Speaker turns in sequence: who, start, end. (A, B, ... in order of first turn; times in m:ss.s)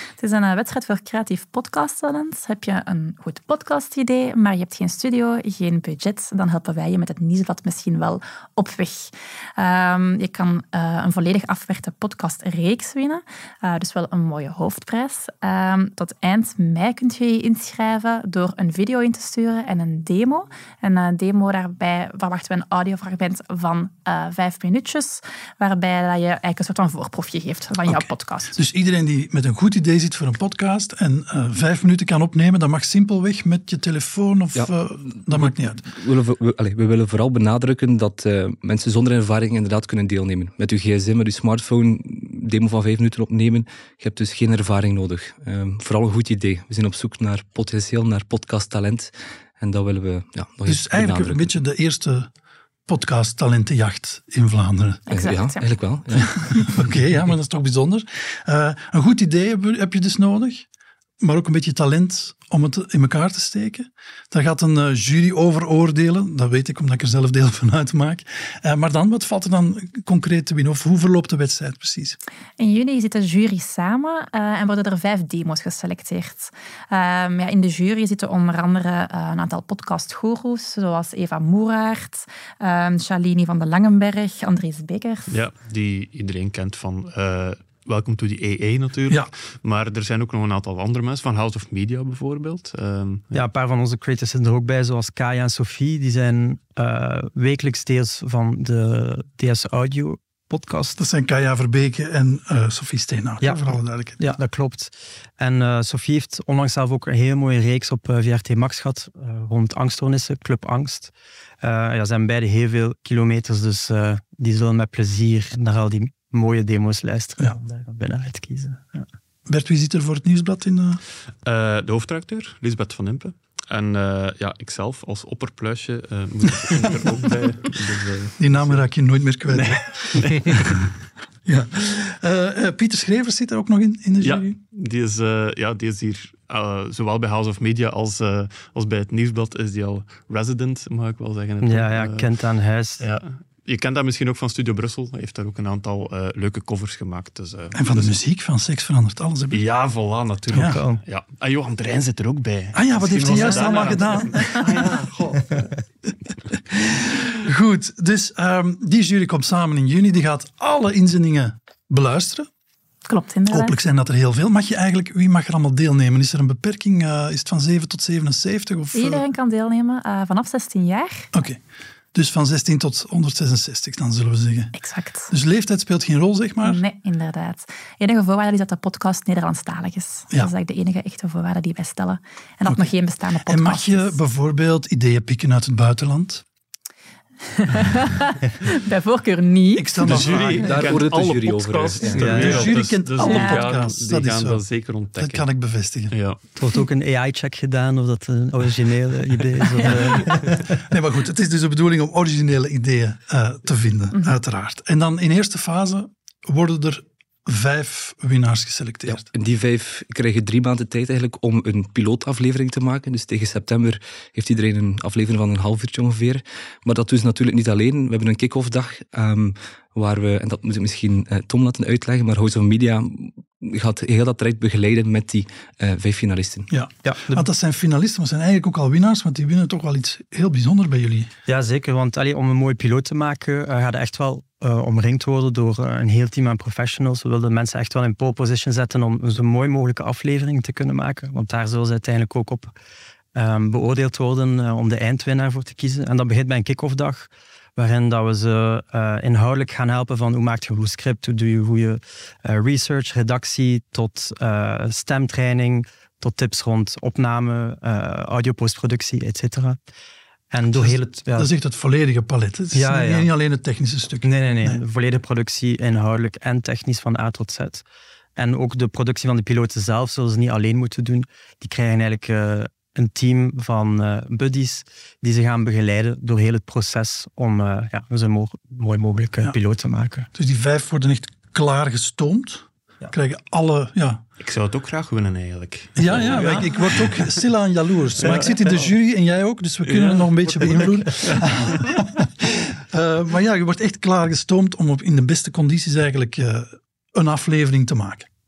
0:00.2-0:28.6 A
0:27.8-0:35.8 B
0:34.6-0:51.5 C
0:50.7-0:52.3 B
0:52.9-0:55.0 B
0:55.1-0:56.8 C
0:55.1-0:56.5 A
0:56.5-1:00.7 B
1:01.2-1:12.2 B
1:12.6-1:25.4 A
1:25.3-1:33.4 D
1:33.3-1:41.0 E
1:41.0-1:44.2 B
1:43.4-1:59.1 E
1:59.5-2:01.0 B
2:01.4-2:08.8 D
2:08.4-2:10.5 B
2:09.5-2:11.0 D
2:11.4-2:14.6 B
2:14.2-2:22.3 D
2:21.6-2:23.0 E
2:23.0-2:28.2 D
2:27.8-2:29.6 B
2:29.5-2:35.7 D
2:30.5-2:31.0 E
2:30.5-2:30.8 B
2:32.7-2:34.9 B
2:36.7-2:42.5 B
2:43.0-2:43.7 A
2:43.5-2:49.2 B
2:48.9-2:51.3 A
2:51.3-2:51.6 B
2:52.1-2:54.8 B
2:54.8-2:55.3 A
2:55.3-2:56.8 B
2:56.6-3:04.2 A
3:02.6-3:06.4 B
3:07.6-3:10.5 A
3:09.8-3:10.8 B
3:10.0-3:15.5 D
3:10.5-3:12.7 C
3:12.2-3:12.6 E
3:12.2-3:16.2 B
3:13.2-3:13.7 A
3:16.1-3:16.4 D
3:16.6-3:20.8 E
3:20.1-3:29.3 B
3:29.1-3:46.7 C
3:46.7-3:51.3 B
3:47.0-3:47.4 E
3:51.5-4:02.7 E
4:03.4-4:19.8 E
4:20.5-4:21.5 E
4:20.7-4:24.8 B
4:22.7-4:23.3 E
4:24.2-4:27.8 E
4:28.4-4:40.3 E
4:40.3-4:44.2 B
4:44.4-4:47.4 D
4:46.0-4:58.3 B
4:48.2-4:48.9 D
4:49.8-4:52.1 D